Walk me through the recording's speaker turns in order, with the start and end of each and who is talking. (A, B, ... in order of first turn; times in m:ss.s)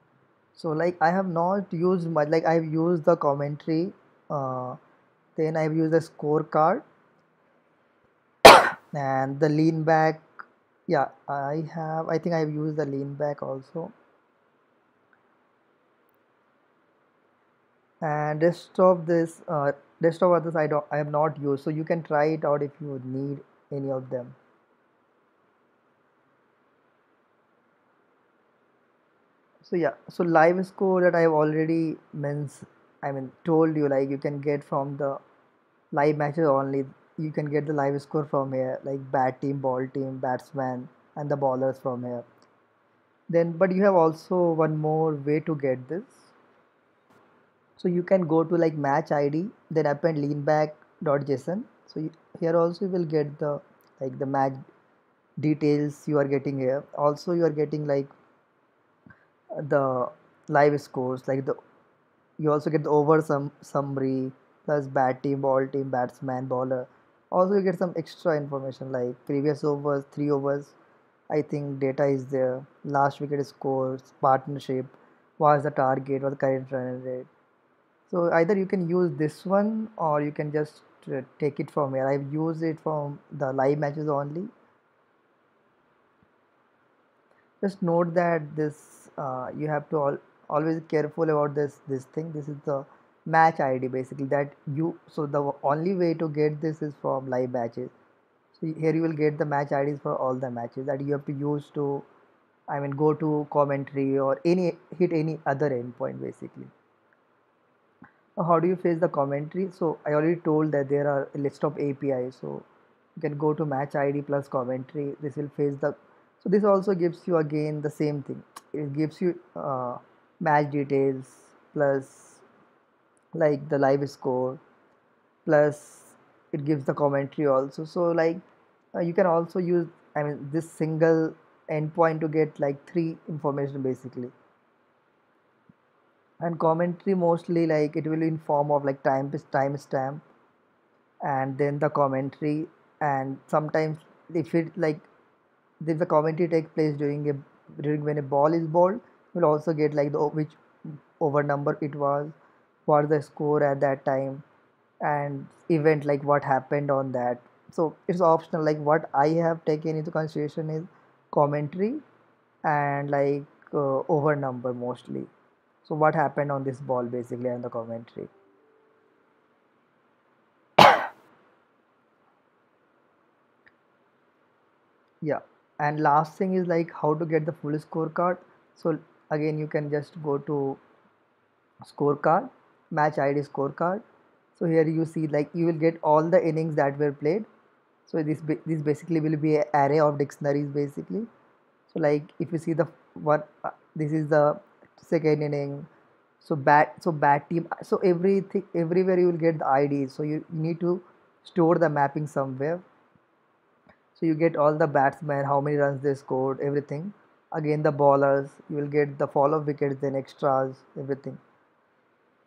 0:00.5-0:04.8 A
0:05.4-0:06.8 A
0:08.4-0:10.3 A
0:10.9-0:13.9 A
0:18.0-0:24.4 A
0:29.6-0:35.2 A
0:35.9-0:42.2 A
0:43.3-0:46.3 A
0:47.8-0:54.6 A
0:55.4-0:58.1 A
0:59.6-1:01.6 A
1:02.4-1:10.8 A
1:11.3-1:17.3 A
1:18.1-1:24.5 A
1:27.6-1:37.9 A
1:38.5-1:42.0 A
1:42.7-1:46.7 A
1:48.4-1:52.6 A
1:53.2-2:02.4 A
2:03.3-2:04.6 A
2:05.4-2:08.4 A
2:08.9-2:14.3 A
2:16.4-2:20.2 A
2:21.2-2:25.1 A
2:25.8-2:30.6 A
2:31.2-2:32.4 A
2:32.9-2:34.4 A
2:35.0-2:42.0 A
2:42.6-2:45.3 A
2:45.8-2:48.3 A
2:55.2-3:00.8 A
3:01.8-3:04.0 A
3:04.5-3:07.5 A
3:08.1-3:11.3 A
3:11.9-3:15.9 A
3:16.4-3:22.8 A
3:24.1-3:31.4 A